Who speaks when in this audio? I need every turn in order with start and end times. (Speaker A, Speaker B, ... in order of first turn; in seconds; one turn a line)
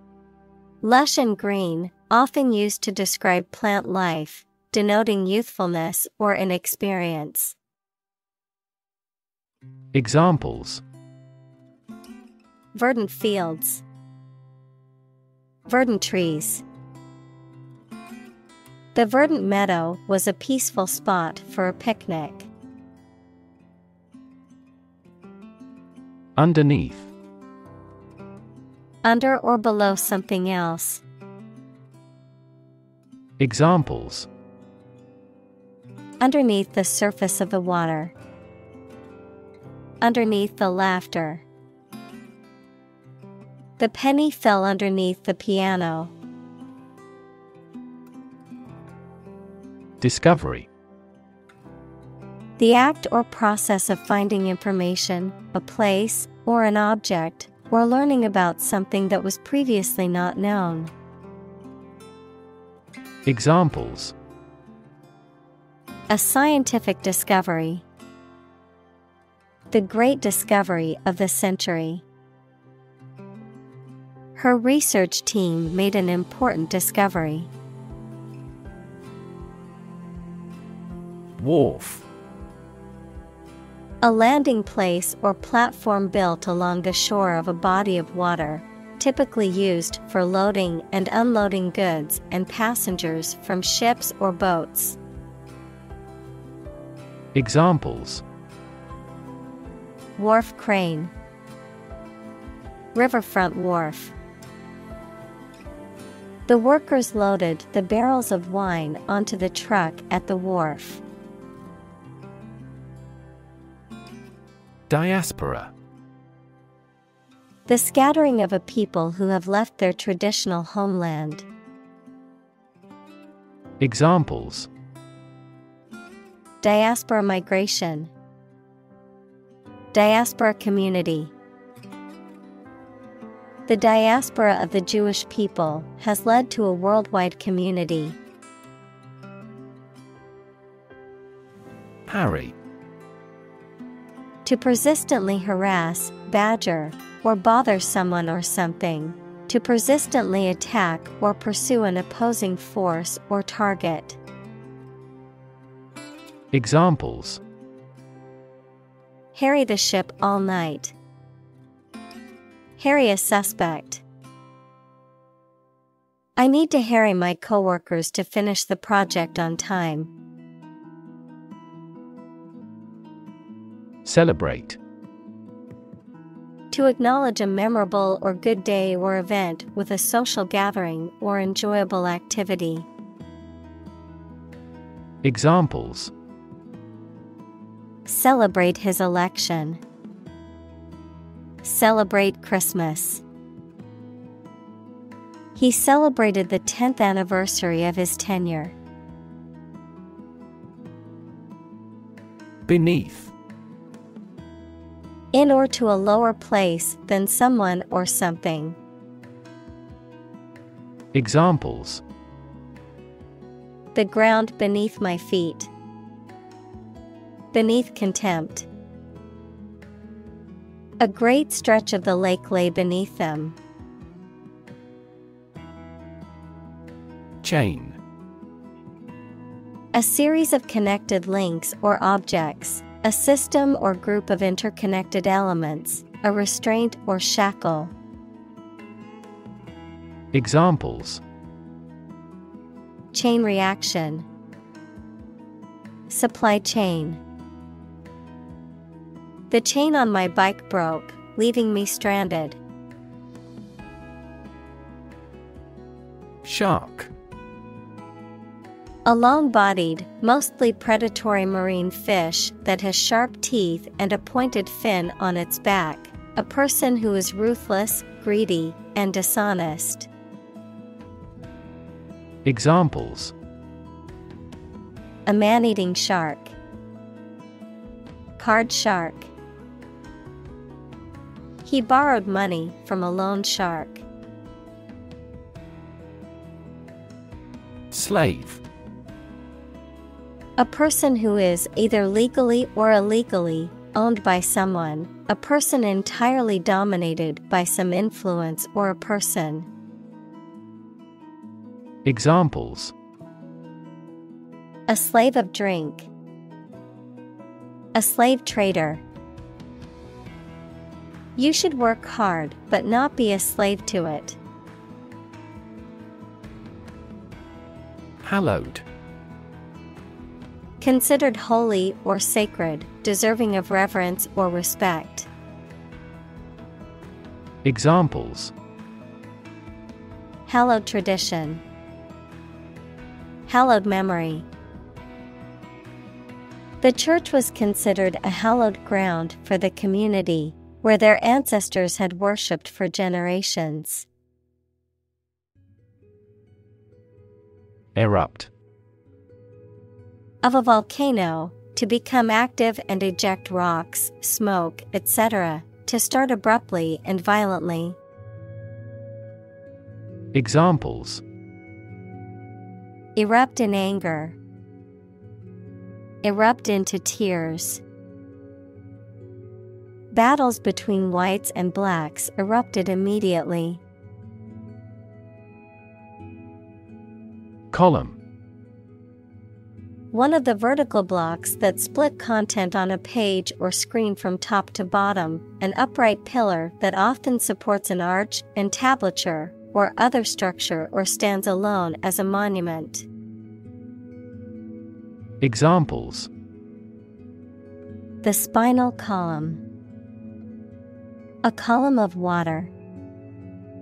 Speaker A: 0.8-7.5
Speaker B: 9.9-10.8
Speaker A: 12.7-13.8
Speaker A: 15.7-16.6
Speaker A: 18.9-22.5
Speaker B: 26.4-27.1
Speaker A: 29.0-31.0
Speaker B: 33.4-34.3
Speaker A: 36.2-38.1
Speaker A: 40.0-41.4
Speaker A: 43.8-46.1
Speaker B: 50.0-50.7
Speaker A: 52.6-60.9
Speaker B: 63.2-64.1
Speaker A: 66.1-67.8
Speaker A: 69.7-72.0
Speaker A: 74.3-77.5
Speaker B: 81.4-82.0
Speaker A: 84.0-95.0
Speaker B: 97.3-98.2
Speaker A: 100.2-101.1
Speaker A: 102.9-104.1
Speaker A: 106.5-111.0
Speaker B: 114.9-115.7
Speaker A: 117.7-121.5
Speaker B: 123.8-124.7
Speaker A: 126.6-128.1
Speaker A: 129.9-131.3
Speaker A: 133.7-138.2
Speaker B: 142.1-142.5
Speaker A: 144.4-154.2
Speaker B: 156.5-157.4
Speaker A: 159.3-160.9
Speaker A: 162.8-164.0
Speaker A: 166.3-170.1
Speaker B: 174.0-174.8
Speaker A: 176.7-182.9
Speaker B: 185.2-186.1
Speaker A: 188.1-189.8
Speaker A: 191.6-193.2
Speaker A: 195.6-198.8
Speaker B: 202.7-203.3
Speaker A: 205.3-208.8
Speaker B: 211.1-212.0
Speaker A: 213.9-215.7
Speaker A: 217.5-218.7
Speaker A: 221.0-223.6
Speaker B: 227.4-228.0
Speaker A: 229.9-237.9
Speaker B: 240.3-241.2
Speaker A: 243.1-244.3
Speaker A: 246.1-247.2
Speaker A: 249.5-252.6
Speaker B: 256.4-257.1
Speaker A: 259.1-270.1
Speaker B: 272.4-273.3
Speaker A: 275.2-276.6
Speaker A: 278.4-279.3
Speaker A: 281.6-284.0
Speaker B: 287.9-288.6
Speaker A: 290.6-299.7
Speaker B: 302.0-302.9
Speaker A: 304.9-306.1
Speaker A: 307.9-309.0
Speaker A: 311.4-314.4
Speaker B: 318.2-318.8
Speaker A: 320.8-325.3
Speaker B: 327.6-328.5
Speaker A: 330.4-331.6
Speaker A: 333.5-334.5
Speaker A: 336.8-344.1
Speaker B: 347.9-348.5
Speaker A: 350.4-358.0
Speaker B: 360.3-361.2
Speaker A: 363.1-364.4
Speaker A: 366.2-367.8
Speaker A: 370.1-373.8
Speaker B: 377.7-378.2
Speaker A: 380.1-393.1
Speaker B: 395.4-396.3
Speaker A: 398.2-399.6
Speaker A: 401.4-402.7